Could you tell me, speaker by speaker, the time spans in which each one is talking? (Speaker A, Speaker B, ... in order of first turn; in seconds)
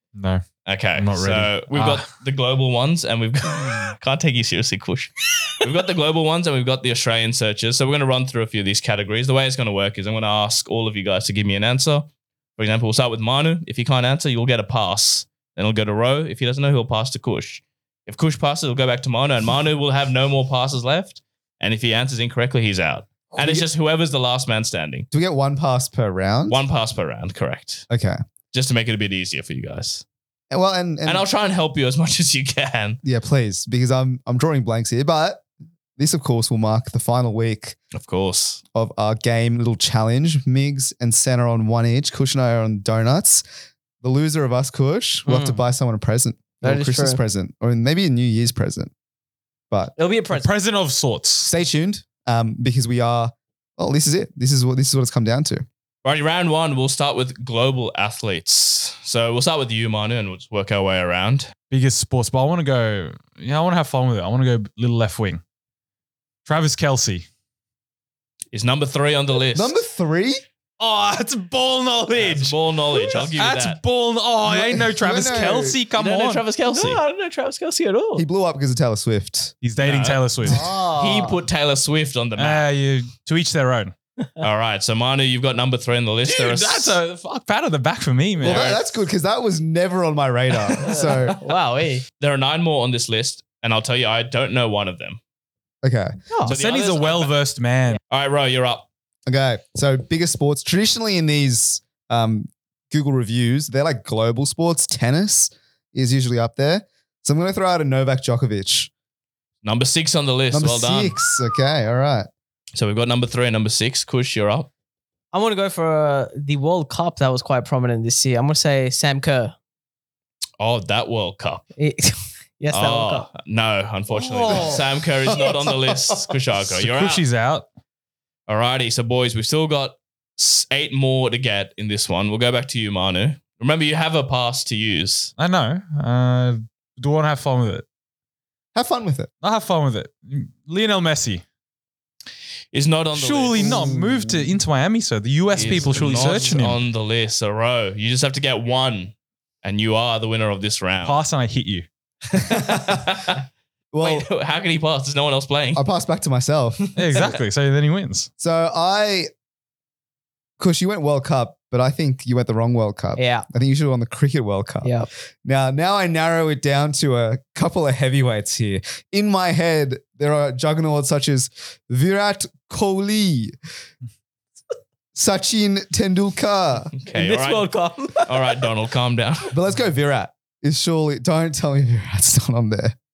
Speaker A: 0.2-0.4, 0.9-2.1, 50.3-51.5, 61.7-65.4, 66.5-67.3, 70.8-76.4, 79.6-80.6, 82.4-83.9, 87.0-88.8, 96.5-98.0, 126.7-127.7, 135.4-137.8, 139.4-141.4, 143.1-146.8, 151.0-151.9, 157.0-158.3
Speaker B: 0.7-25.1, 26.5-27.9, 28.5-30.1, 31.1-33.0, 37.9-38.6, 56.0-61.5, 68.5-69.8, 72.1-73.8, 75.9-77.0, 79.8-82.7, 84.4-87.0, 88.4-88.8, 92.2-95.2, 96.5-97.3, 98.1-98.9, 109.6-111.2, 112.8-114.7, 120.6-121.7, 122.7-127.2, 128.5-135.3, 142.7-143.9, 145.5-151.2, 152.3-153.4, 154.0-155.8, 157.0-157.4, 177.0-179.5
Speaker C: 23.3-23.7, 25.1-26.6, 27.9-28.2, 30.5-31.2, 33.0-35.4, 36.0-37.8, 38.7-43.4, 44.0-48.9, 51.4-55.7, 69.5-70.4, 74.4-75.8, 78.2-79.5, 80.5-80.8, 88.4-91.4, 95.8-96.2, 99.3-108.9, 110.5-112.3, 125.3-126.0, 138.8-139.3, 143.6-144.5, 152.6-153.0, 153.9-154.3, 155.7-156.8, 158.4-159.3, 160.6-164.9, 165.4-173.6, 175.2-176.9, 179.5-182.9
Speaker D: 45.3-45.6, 46.6-47.2, 50.0-50.5, 76.7-78.3, 80.5-81.4, 86.3-87.1, 90.8-92.0, 96.3-96.6, 115.3-119.6, 121.8-123.3, 124.1-124.9, 163.2-163.4, 177.1-178.6